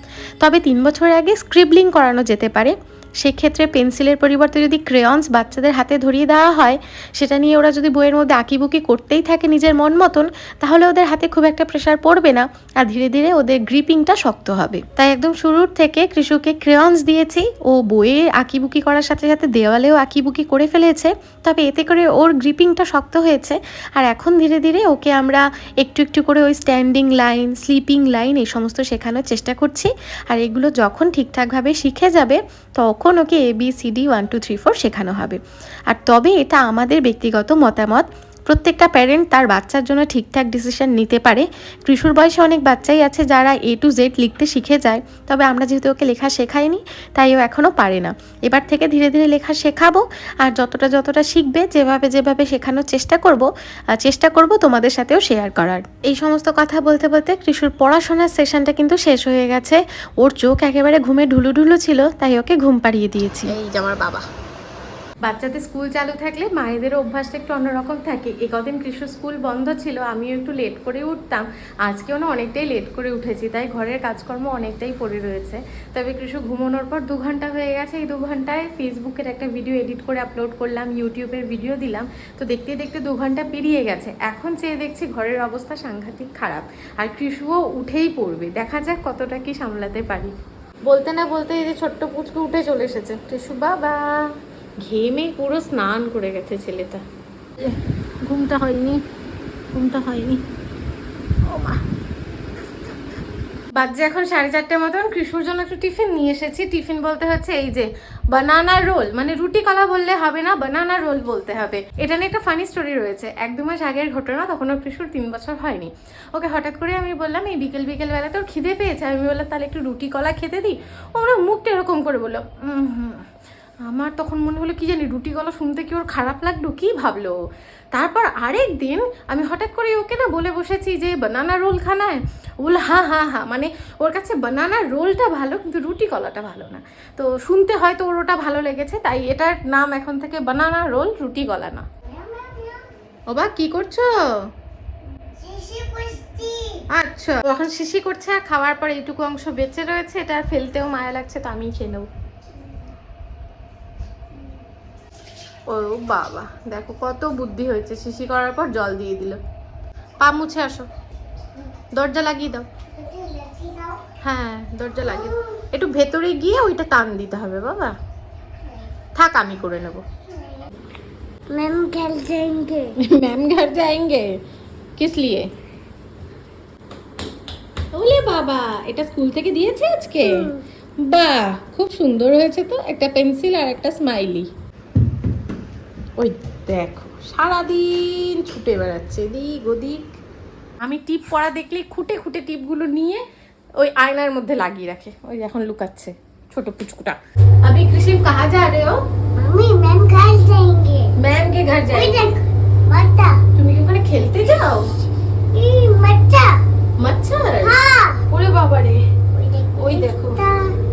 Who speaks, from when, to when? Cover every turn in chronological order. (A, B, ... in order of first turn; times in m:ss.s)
0:00.4-1:03.5 A
1:03.5-1:04.2 B
1:05.2-1:30.3 B
1:30.9-1:34.1 B
1:34.8-1:37.0 B
1:37.6-1:39.0 B
1:39.7-1:40.4 B
1:41.5-1:41.8 B
1:43.8-2:03.2 B
2:03.8-2:07.4 B
2:07.9-2:21.9 B
2:22.0-2:22.8 C
2:23.3-2:24.1 B
2:25.2-2:26.8 C
2:26.9-2:32.1 B
2:35.7-2:39.4 B
2:40.2-2:40.9 B
2:41.9-2:42.7 B
2:42.9-2:44.0 C
2:44.2-2:47.9 B
2:45.0-2:45.6 C
2:49.2-2:50.0 B
2:50.3-2:50.6 C
2:51.5-2:52.9 C
2:53.0-2:54.3 B
2:55.0-2:55.5 B
2:57.9-3:00.5 B
3:00.2-3:00.6 C
3:01.0-3:04.5 B
3:06.2-3:10.0 B
3:10.8-3:13.2 B
3:13.8-3:19.0 B
3:19.4-3:21.1 C
3:21.2-3:22.3 B
3:21.9-3:23.4 C
3:23.6-3:24.9 B
3:25.5-3:26.5 C
3:27.0-3:29.0 B
3:27.6-3:28.2 C
3:29.3-3:30.7 C
3:29.8-3:30.4 B